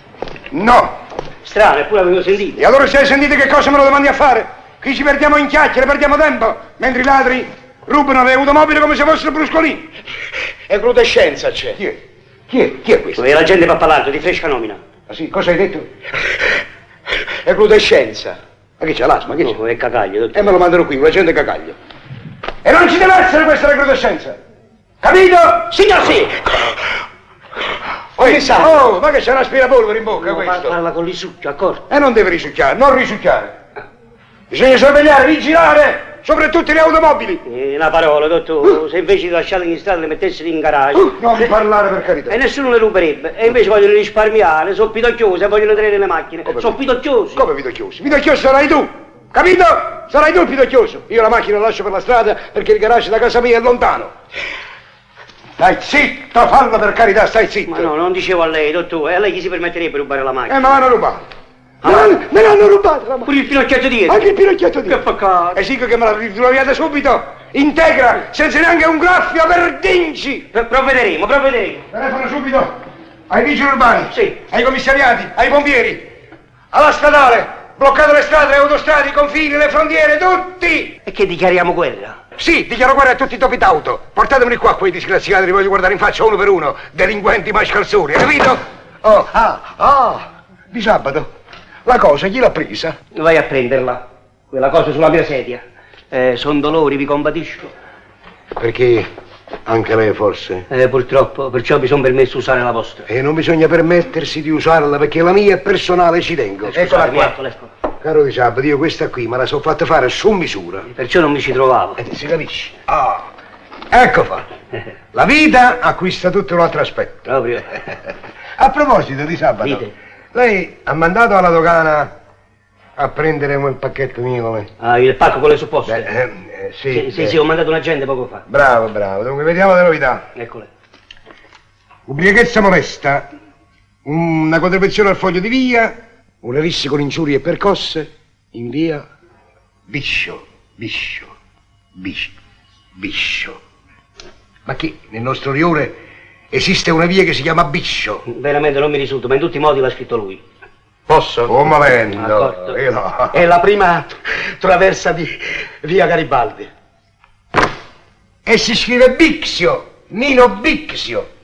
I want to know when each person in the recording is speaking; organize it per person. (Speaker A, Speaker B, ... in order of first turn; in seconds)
Speaker A: 0.5-0.9, 2.6-9.9, 11.8-13.3, 15.1-15.9, 17.5-17.9, 18.8-19.6, 20.3-21.8, 22.6-24.4, 25.0-25.8, 28.2-30.8, 31.9-33.5, 34.5-37.4, 40.9-42.4, 46.5-46.8, 47.3-54.1, 55.6-57.9, 60.5-61.2, 61.8-63.3, 64.1-65.0, 65.5-70.5, 71.9-72.7, 73.3-76.1, 76.7-81.0, 82.4-91.3, 91.8-93.0, 98.6-99.1, 99.7-100.7, 103.1-107.3, 108.0-110.9, 112.0-113.3, 113.9-114.5, 115.1-117.2, 118.6-122.1, 123.0-124.7, 125.9-127.4, 128.5-130.3, 132.1-133.3, 134.1-139.1, 139.9-141.3, 141.9-142.3, 143.0-143.6, 144.7-146.0, 146.5-148.2, 151.5-153.4, 158.5-161.3
Speaker B: 1.4-2.6, 13.2-14.8, 19.4-20.5, 25.7-26.4, 30.2-31.8, 37.5-41.2, 42.3-47.4, 57.7-60.7, 61.8-62.2, 63.2-64.2, 64.9-65.6, 70.5-71.9, 74.1-74.4, 81.1-82.2, 93.1-97.7, 100.7-103.1, 106.7-107.7, 110.9-112.0, 117.2-118.0, 119.6-119.9, 124.8-126.1, 126.9-128.4, 130.3-130.7, 148.3-150.4, 152.1-152.8
Speaker C: 10.7-11.8, 17.5-18.4, 28.2-28.8, 151.1-151.5, 153.3-156.7